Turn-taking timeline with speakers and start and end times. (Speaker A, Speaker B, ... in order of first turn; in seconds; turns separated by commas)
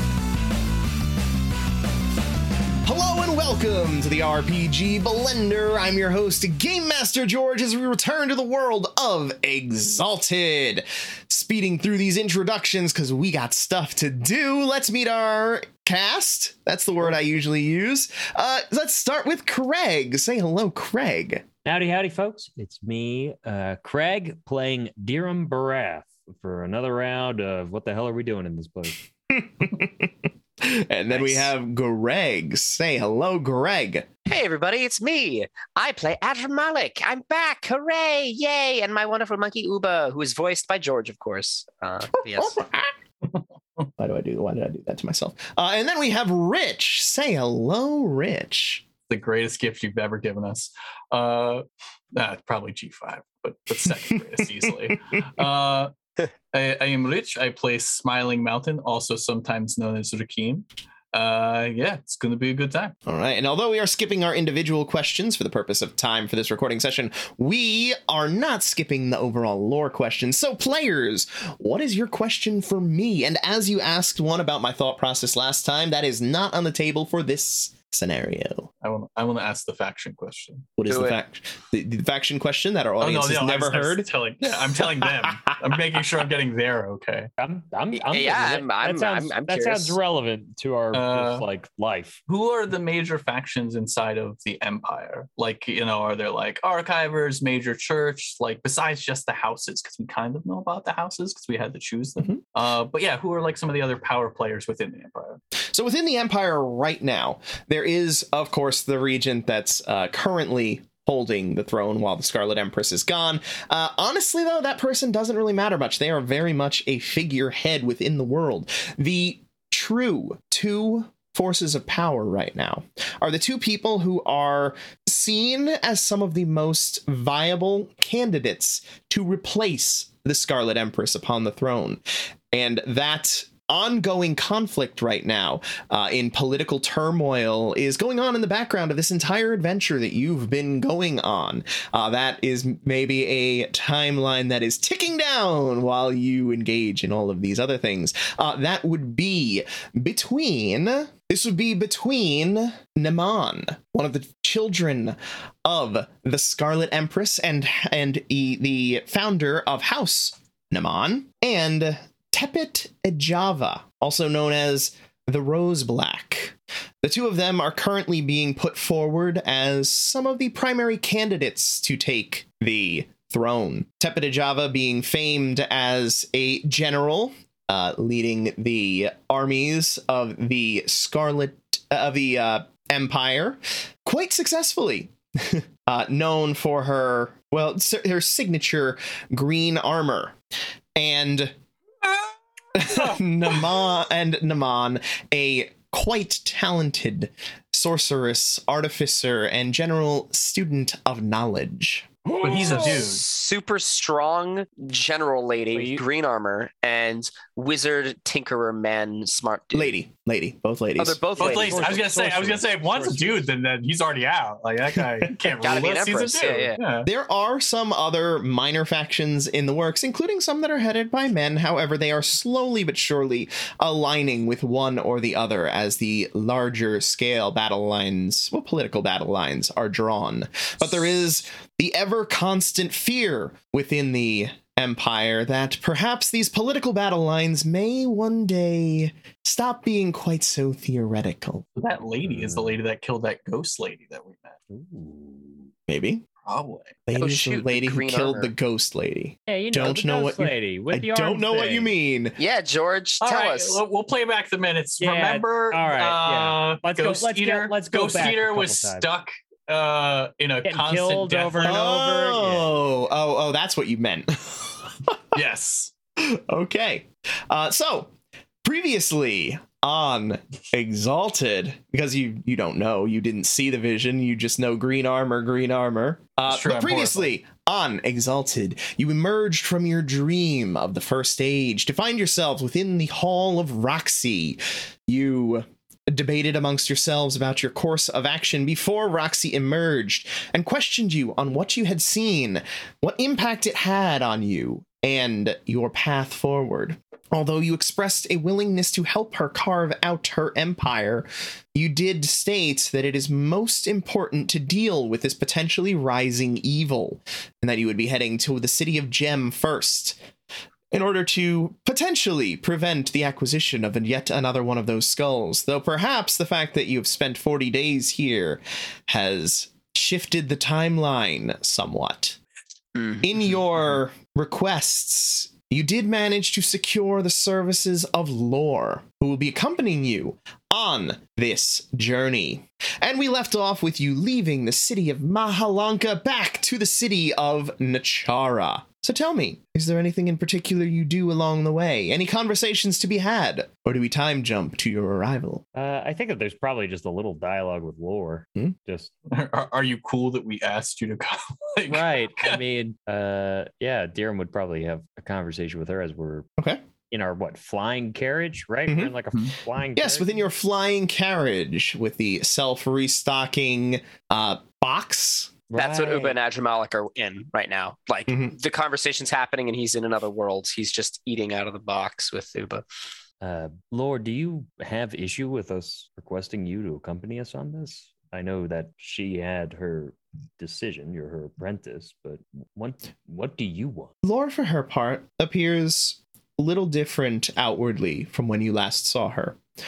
Speaker A: 2.8-21.4, Speaker B: 21.6-29.0, Speaker A: 29.3-34.1, Speaker C: 31.1-31.5, Speaker C: 34.3-42.6, Speaker A: 42.3-42.9, Speaker A: 44.0-48.8, Speaker D: 49.1-55.9, Speaker D: 56.5-62.9, Speaker A: 63.0-78.7, Speaker D: 78.8-80.7, Speaker A: 80.8-85.5, Speaker C: 80.8-81.2, Speaker D: 83.0-87.3, Speaker B: 87.4-92.2, Speaker C: 88.0-90.0, Speaker D: 90.9-91.4, Speaker D: 92.3-105.4, Speaker A: 105.7-190.3, Speaker A: 190.9-191.5, Speaker A: 192.7-203.0, Speaker D: 192.8-193.1, Speaker D: 202.4-203.2, Speaker C: 202.6-210.0, Speaker B: 205.7-206.0, Speaker A: 209.7-211.2, Speaker C: 211.0-212.0, Speaker B: 211.4-213.5, Speaker D: 211.4-217.1, Speaker C: 215.6-216.8, Speaker A: 217.0-241.6, Speaker D: 241.8-244.6, Speaker B: 242.3-242.8, Speaker B: 244.7-245.7, Speaker A: 245.9-246.2, Speaker D: 246.4-247.0, Speaker A: 247.1-252.4, Speaker C: 247.2-248.5, Speaker B: 249.5-251.9, Speaker C: 252.4-253.8, Speaker D: 253.2-261.8, Speaker B: 255.0-259.1, Speaker B: 260.6-262.8, Speaker A: 261.6-265.4, Speaker D: 265.3-265.9, Speaker A: 266.2-268.1, Speaker A: 268.6-310.2, Speaker D: 276.5-277.3, Speaker A: 310.9-322.4, Speaker C: 322.9-323.2, Speaker A: 323.2-345.6, Speaker B: 345.7-349.1, Speaker D: 349.3-352.6, Speaker B: 351.9-356.5, Speaker B: 357.1-360.3, Speaker A: 358.9-359.1, Speaker A: 359.9-365.5, Speaker B: 365.7-366.3, Speaker C: 365.7-372.9, Speaker A: 368.3-368.5, Speaker B: 373.4-384.1, Speaker A: 384.2-389.6